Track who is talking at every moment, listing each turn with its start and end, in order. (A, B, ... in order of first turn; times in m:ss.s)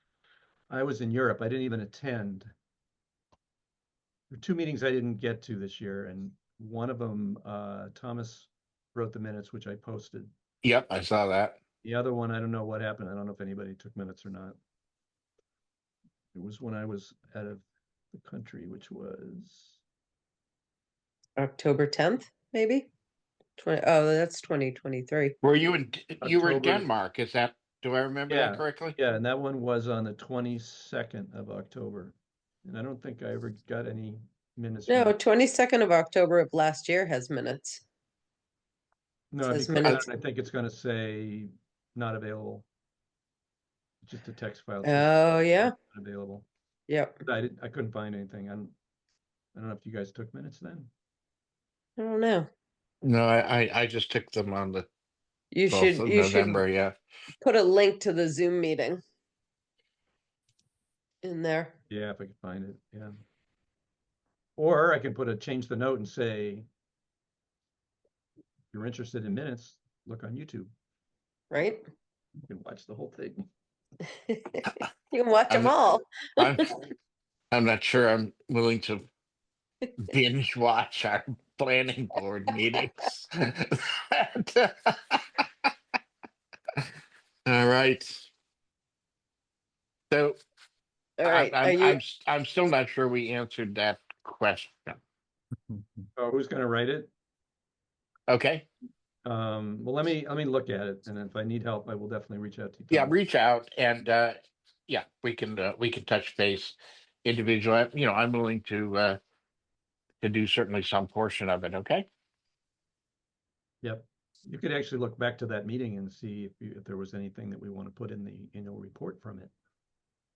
0:00.7-0:02.5 A
0:04.3-0:10.3 A
0:10.6-0:11.6 B
0:11.8-0:14.6 A
0:16.3-0:19.8 A
0:21.4-0:22.9 C
0:23.6-0:25.4 C
0:25.4-0:29.0 B
0:26.2-0:26.9 A
0:28.3-0:35.1 A
0:34.9-0:37.8 C
0:39.3-0:42.7 A
0:39.4-0:40.1 C
0:44.0-0:46.5 A
0:44.8-0:45.7 C
0:46.9-0:47.2 C
0:47.2-0:48.8 A
0:49.6-0:50.9 A
0:52.0-0:52.5 C
0:53.0-0:54.9 B
0:55.5-0:56.6 C
0:55.7-0:57.0 B
0:57.4-0:59.0 C
1:01.2-1:01.8 C
1:01.9-1:03.2 A
1:04.6-1:06.7 A
1:08.7-1:10.7 A
1:11.5-1:11.8 C
1:12.5-1:13.5 A
1:14.3-1:16.7 C
1:15.5-1:16.8 B
1:17.5-1:19.1 B
1:20.0-1:25.7 B
1:27.5-1:28.3 B
1:30.1-1:30.4 B
1:31.2-1:32.0 C
1:31.2-1:35.0 B
1:36.2-1:37.1 A
1:38.3-1:38.7 B
1:39.2-1:43.2 A
1:42.9-1:49.2 B
1:50.2-1:52.1 B
1:53.8-1:59.5 A